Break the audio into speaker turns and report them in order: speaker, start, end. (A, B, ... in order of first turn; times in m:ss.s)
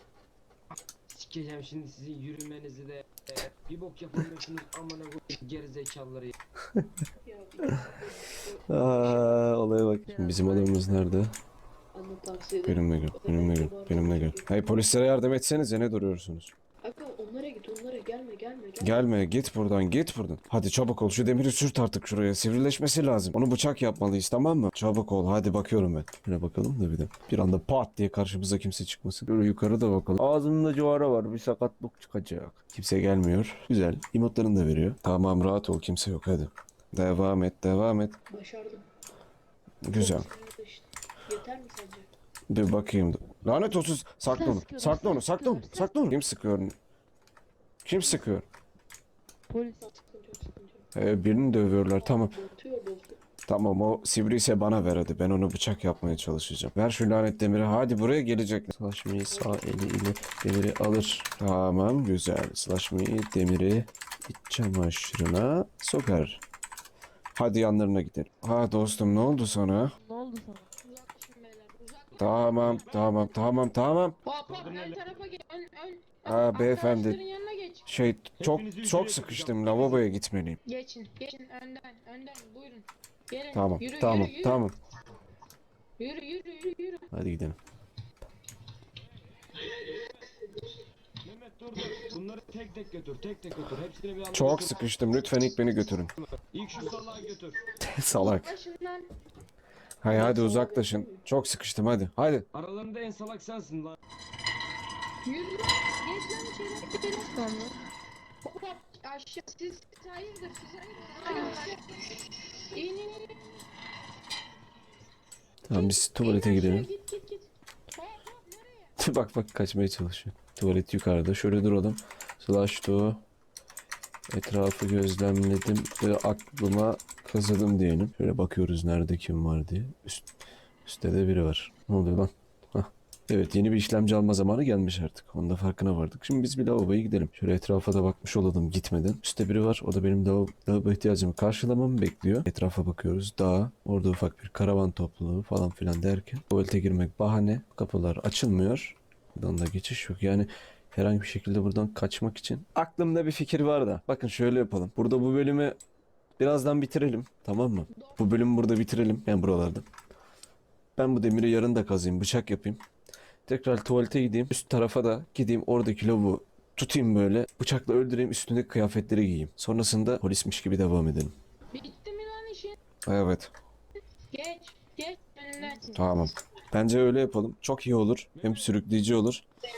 0:01.1-0:06.4 A
0:07.2-0:09.4 B
0:08.7-0:11.4 C
0:10.0-0:11.3 D
0:11.9-0:15.0 B
0:12.6-0:16.5 C
0:16.8-0:19.1 B
0:18.8-0:38.2 C
0:38.3-0:38.9 B
0:39.8-0:40.3 C
0:39.9-0:42.1 B
0:42.5-0:46.8 C
0:44.3-0:46.0 D
0:47.8-0:48.5 C
0:49.5-0:49.9 D
0:49.8-0:53.2 B
0:51.0-0:52.4 C
0:53.5-1:06.4 C
0:59.3-1:00.4 B
1:07.4-1:09.9 C
1:09.8-1:10.7 D
1:10.8-1:12.9 E
1:12.2-1:14.2 C
1:12.6-1:13.3 A
1:14.2-1:17.9 E
1:14.5-1:15.3 A
1:16.2-1:17.2 C
1:17.9-1:20.6 C
1:18.4-1:20.1 A
1:20.6-1:24.7 E
1:23.5-1:24.8 C
1:26.0-1:27.1 E
1:27.1-1:27.6 C
1:30.0-1:30.3 A
1:31.2-1:34.9 A
1:34.3-1:36.1 C
1:36.4-1:37.6 A
1:37.8-1:38.5 C
1:38.2-1:39.1 E
1:40.0-1:42.5 C
1:40.1-1:41.2 B
1:42.5-1:44.0 A
1:45.2-1:47.7 E
1:48.4-1:51.8 E
1:52.7-1:53.4 E
1:55.7-1:56.9 C
1:55.7-1:58.9 E
1:59.0-2:03.2 C
2:04.3-2:10.2 C
2:10.8-2:35.8 C
2:36.4-2:39.8 C
2:37.9-2:38.3 E
2:41.0-2:42.8 C
2:43.5-2:51.3 C
2:51.7-2:52.8 E
2:53.1-2:53.5 C
2:54.3-2:55.8 E
2:55.6-2:56.2 D
2:56.0-2:59.4 C
2:58.4-2:58.8 A